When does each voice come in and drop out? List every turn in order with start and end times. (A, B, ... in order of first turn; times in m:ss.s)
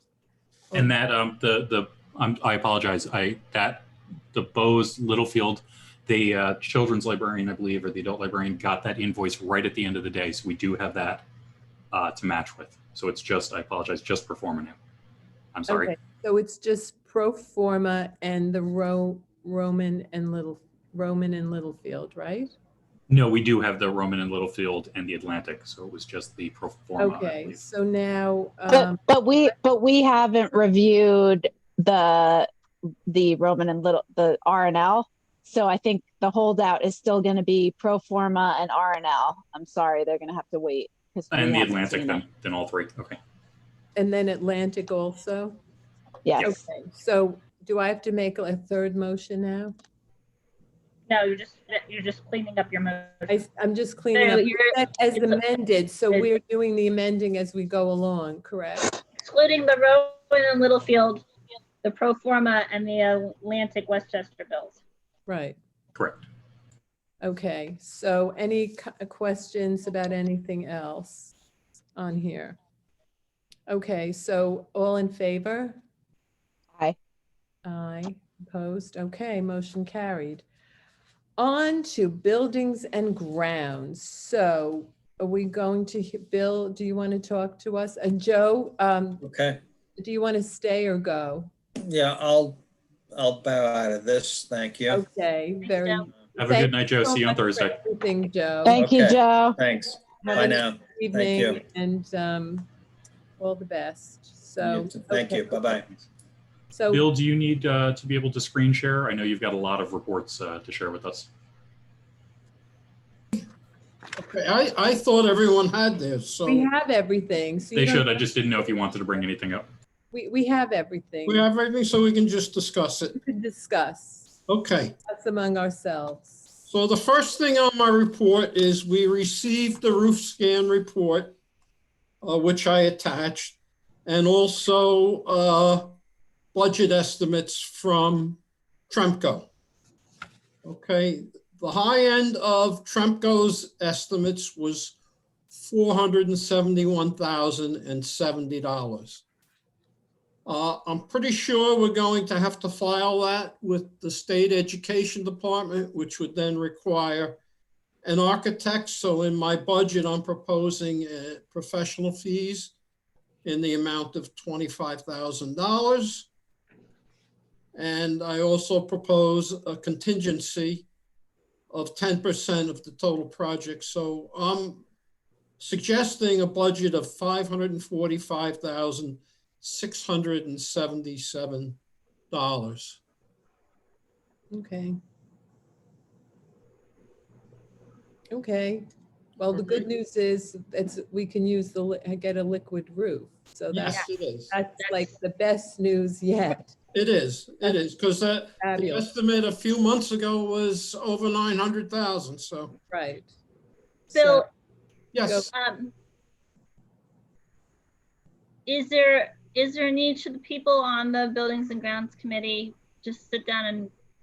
0:00.7-0:11.2 A
0:11.9-0:14.8 A
0:15.5-0:15.9 A
0:15.7-0:22.5 B
0:23.1-0:27.6 A
0:27.0-0:29.0 B
0:28.7-0:32.5 C
0:33.1-0:42.2 C
0:41.3-0:43.2 A
0:44.0-0:45.6 B
0:46.2-0:46.6 C
0:46.4-0:49.7 B
0:51.1-0:53.4 D
0:53.3-0:59.0 B
0:54.1-0:55.4 D
0:59.2-1:01.2 D
1:01.8-1:04.8 D
1:05.3-1:05.6 B
1:06.0-1:06.2 A
1:07.2-1:11.3 B
1:12.0-1:12.6 B
1:13.7-1:15.8 B
1:17.6-1:20.4 B
1:21.4-1:29.2 B
1:29.2-1:29.6 E
1:30.0-1:31.5 B
1:31.8-1:35.0 E
1:34.9-1:38.9 B
1:35.6-1:36.1 D
1:36.4-1:37.8 A
1:38.6-1:39.6 C
1:38.8-1:41.6 E
1:40.2-1:42.7 B
1:43.4-1:45.7 B
1:44.6-1:45.9 E
1:46.7-1:47.0 B
1:46.9-1:51.3 A
1:54.2-1:56.7 F
1:56.4-1:58.2 B
1:57.8-1:59.7 A
2:00.1-2:01.5 B
2:01.3-2:03.2 F
2:03.2-2:04.3 B
2:04.5-2:05.0 F
2:05.1-2:06.4 B
2:06.7-2:11.4 F
2:12.2-2:16.0 F
2:16.5-2:19.5 F
2:20.6-2:25.0 F
2:25.5-2:29.2 F
2:30.5-2:37.4 F
2:38.0-2:42.7 F
2:43.4-2:46.3 F
2:47.8-2:50.9 F
2:51.7-2:54.8 F
2:55.6-3:01.8 F
3:02.3-3:03.0 F
3:04.5-3:05.0 B
3:08.3-3:08.9 B
3:09.4-3:16.7 B
3:09.6-3:09.8 F
3:13.7-3:14.5 F
3:14.8-3:15.0 D
3:16.9-3:22.8 F
3:18.6-3:19.1 B
3:22.9-3:23.3 B
3:24.1-3:24.4 B
3:24.1-3:24.4 D
3:25.1-3:25.5 F
3:25.5-3:25.9 D
3:28.7-3:33.9 D